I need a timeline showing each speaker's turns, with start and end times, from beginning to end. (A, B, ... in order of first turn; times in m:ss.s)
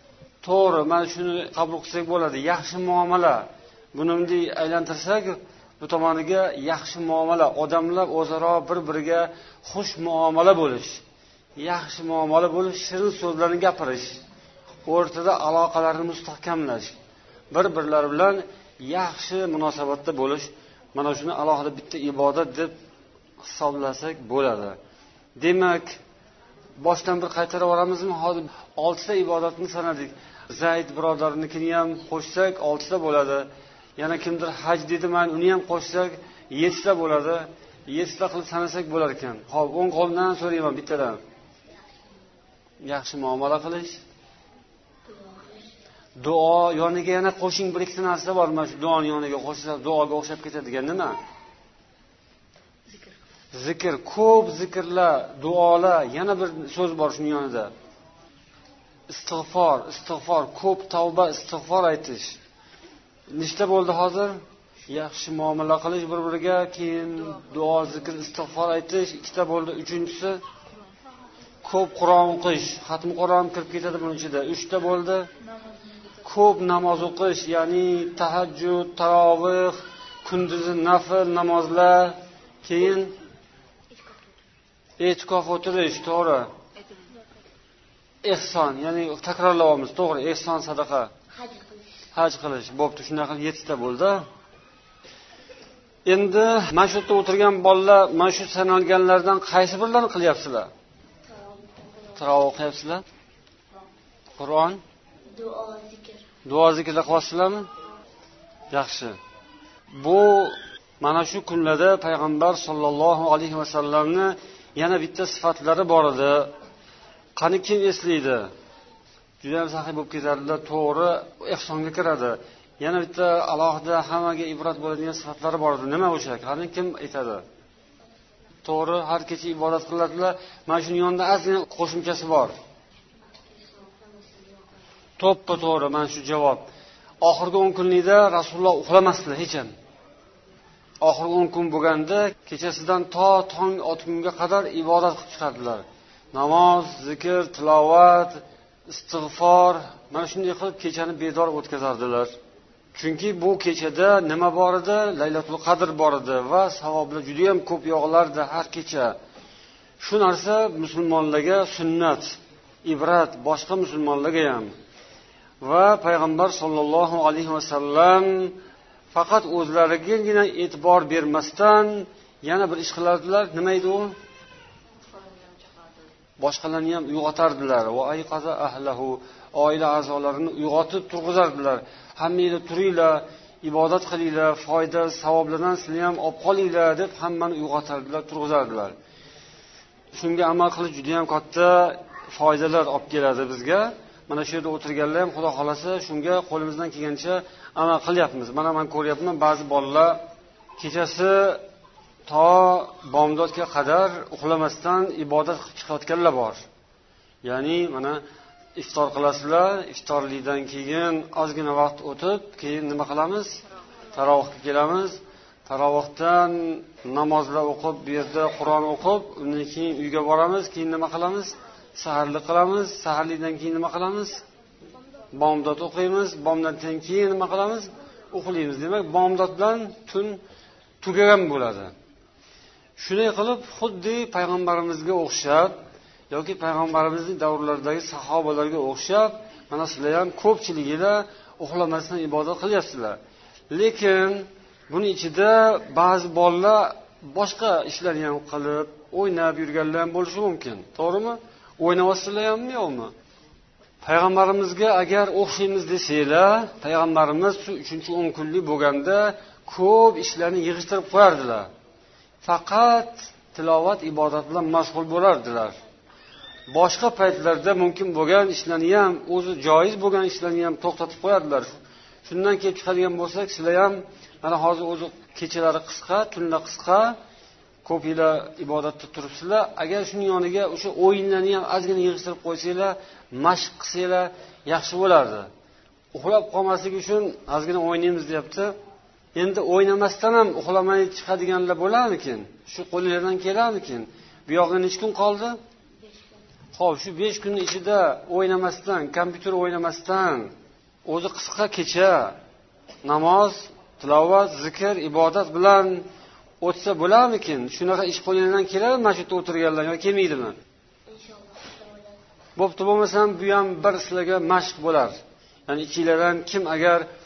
0:00.4-0:11.0 A
0:11.6-0:14.2 A
0:14.9-0:17.0 A
0:17.5-0:22.7 A
0:23.4-0:24.8 A
0:25.4-0:26.0 A
0:26.8-0:41.2 A
0:42.8-0:44.0 A
0:45.0-0:45.7 B
0:46.2-0:51.2 A
0:53.5-0:57.7 A
0:59.1-1:02.4 A
1:03.3-1:10.4 A
1:11.6-1:15.3 A
1:16.2-1:23.2 A
1:23.9-1:24.4 B
1:25.0-1:26.5 A
1:28.2-1:31.1 A
1:31.3-1:31.8 B
1:32.2-1:34.2 A
1:36.0-1:40.7 A
1:41.3-1:42.4 B
1:42.2-1:43.0 A
1:44.4-1:44.8 A
1:45.3-1:46.3 B
1:46.4-1:47.7 A
1:48.7-1:49.2 A
1:50.0-1:56.5 A
1:57.4-1:58.5 A
1:59.4-2:07.4 A
2:08.6-2:12.5 A
2:13.3-2:14.7 B
2:15.2-2:16.6 A
2:17.2-2:19.7 A
2:21.0-2:32.3 A
2:32.9-2:39.2 A
2:40.0-2:44.7 A
2:45.6-2:48.6 A
2:49.1-2:54.2 A
2:56.4-3:09.0 A
3:10.1-3:20.2 A
3:20.8-3:21.6 A
3:22.3-3:26.6 A
3:27.4-3:28.2 A
3:28.8-3:33.6 A
3:34.1-3:44.4 A
3:45.3-3:50.4 A
3:51.0-3:51.9 A
3:53.0-3:55.7 A
3:56.3-4:03.2 A
4:03.7-4:13.1 A
4:14.0-4:21.7 A
4:22.4-4:25.8 A
4:26.7-4:31.7 A
4:32.3-4:37.2 A
4:37.8-4:45.5 A
4:46.1-4:48.7 A
4:49.4-4:55.6 A
4:56.0-4:56.4 B
4:56.8-5:00.5 A
5:01.0-5:02.4 A
5:03.0-5:06.0 A
5:06.6-5:10.6 A
5:11.1-5:12.2 B
5:12.6-5:17.0 A